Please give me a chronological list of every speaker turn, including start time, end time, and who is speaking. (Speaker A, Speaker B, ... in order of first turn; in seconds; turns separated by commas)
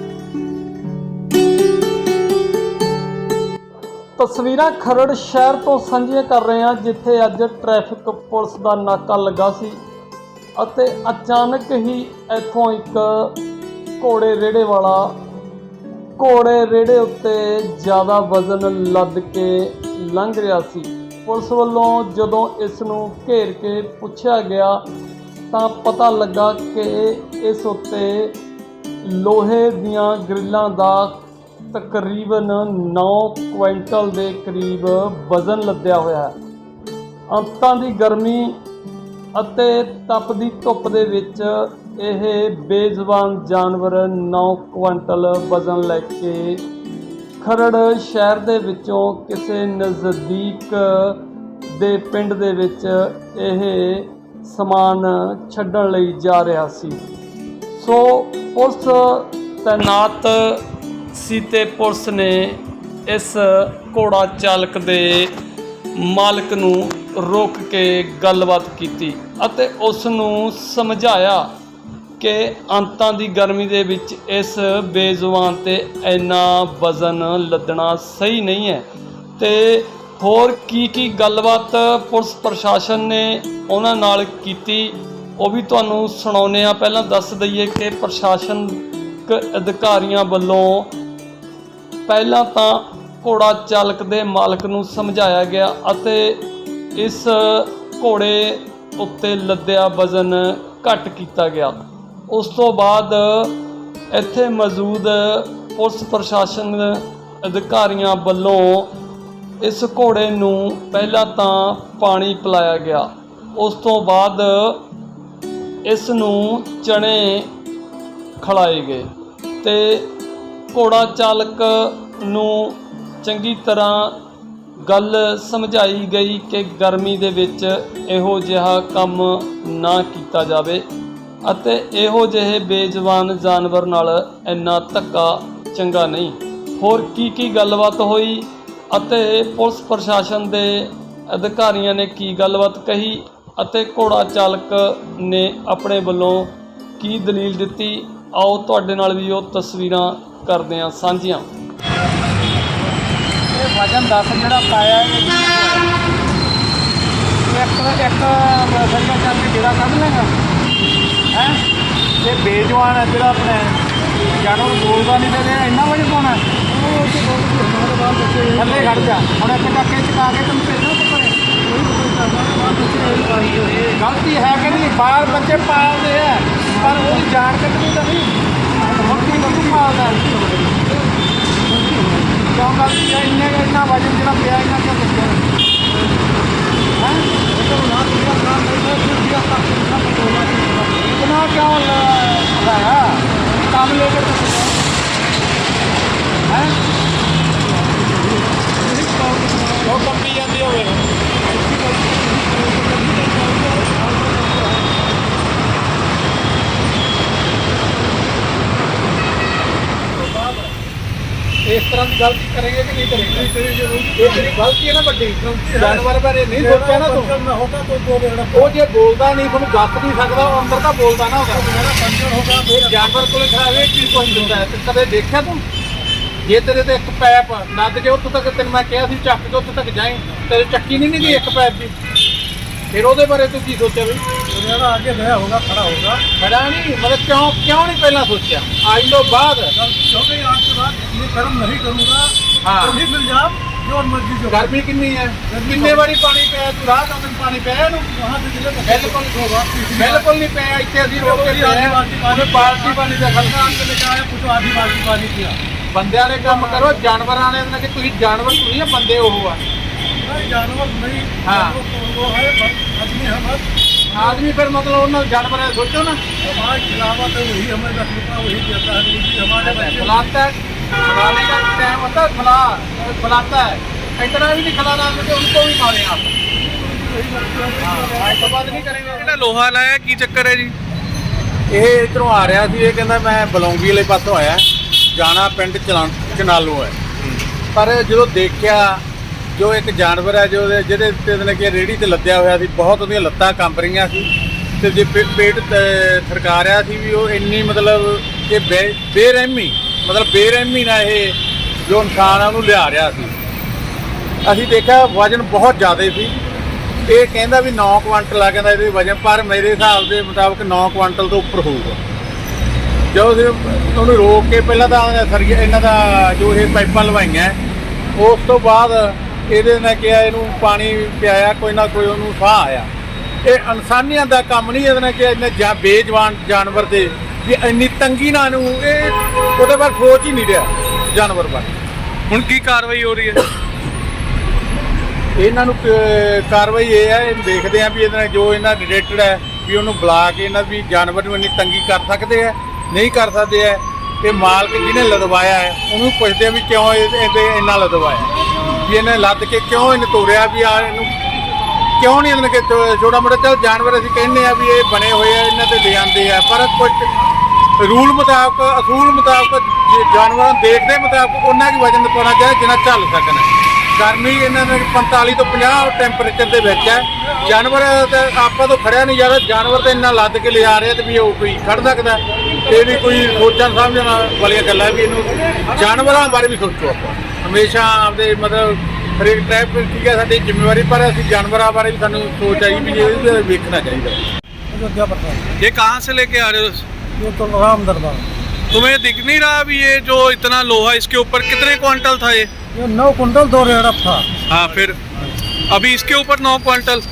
Speaker A: 4.2-9.8, Speaker A: 10.6-13.4, Speaker A: 14.0-15.2, Speaker A: 16.2-24.8, Speaker A: 25.5-28.4, Speaker A: 29.0-36.4, Speaker A: 37.3-38.6, Speaker A: 39.4-46.6, Speaker A: 47.4-57.0, Speaker A: 57.7-65.3, Speaker A: 66.0-71.5, Speaker A: 72.2-78.8, Speaker A: 79.4-90.9, Speaker A: 92.1-96.5, Speaker A: 97.0-101.8, Speaker A: 102.3-103.6, Speaker A: 104.1-108.9, Speaker A: 109.6-114.8, Speaker A: 115.9-117.5, Speaker A: 118.4-119.1, Speaker A: 119.6-120.1, Speaker A: 120.7-124.2, Speaker A: 124.8-130.8, Speaker A: 131.4-151.5, Speaker B: 153.5-155.9, Speaker B: 157.5-160.3, Speaker B: 161.3-161.6, Speaker B: 162.2-163.8, Speaker B: 164.4-166.5, Speaker C: 166.7-169.2, Speaker B: 168.6-171.4, Speaker C: 171.6-174.0, Speaker B: 173.8-178.4, Speaker C: 174.6-176.0, Speaker C: 176.7-177.3, Speaker C: 178.8-181.1, Speaker B: 179.0-180.2, Speaker C: 181.7-182.6, Speaker B: 182.5-185.4, Speaker B: 187.0-187.3, Speaker C: 187.4-191.1, Speaker B: 191.1-194.6, Speaker B: 196.5-196.8, Speaker C: 197.6-200.1, Speaker B: 199.8-201.1, Speaker C: 201.4-205.3, Speaker C: 210.2-210.7, Speaker B: 211.7-213.5, Speaker C: 213.1-214.5, Speaker B: 214.2-217.3, Speaker C: 215.6-218.7, Speaker B: 218.5-221.7, Speaker C: 221.5-224.7, Speaker B: 222.7-225.6, Speaker B: 226.4-231.9, Speaker B: 232.9-234.2, Speaker C: 234.5-236.2, Speaker B: 236.4-239.7, Speaker C: 239.7-244.7, Speaker B: 242.6-243.0, Speaker B: 244.5-248.1, Speaker C: 245.5-246.1, Speaker C: 248.1-250.3, Speaker B: 248.8-253.8, Speaker C: 251.1-255.6, Speaker B: 255.9-259.6, Speaker C: 256.4-257.0, Speaker C: 260.2-264.4, Speaker B: 261.4-261.8, Speaker B: 264.1-266.2, Speaker C: 266.4-270.3, Speaker B: 269.6-276.3, Speaker C: 276.6-279.1, Speaker B: 277.8-279.2, Speaker D: 278.9-280.8, Speaker B: 281.7-287.0, Speaker B: 287.7-289.0, Speaker B: 289.6-294.3, Speaker B: 294.8-303.3, Speaker B: 304.4-306.3, Speaker B: 307.1-312.0, Speaker B: 313.1-317.6, Speaker B: 318.1-322.9, Speaker B: 323.4-331.8, Speaker D: 332.3-333.4, Speaker B: 335.4-351.1, Speaker B: 352.0-357.1, Speaker B: 357.8-384.2, Speaker C: 366.9-367.6, Speaker C: 375.5-375.9, Speaker C: 384.7-385.5, Speaker D: 385.6-386.9, Speaker C: 387.2-388.3, Speaker D: 388.7-392.5, Speaker C: 392.7-394.3, Speaker D: 394.5-395.0, Speaker D: 395.7-397.0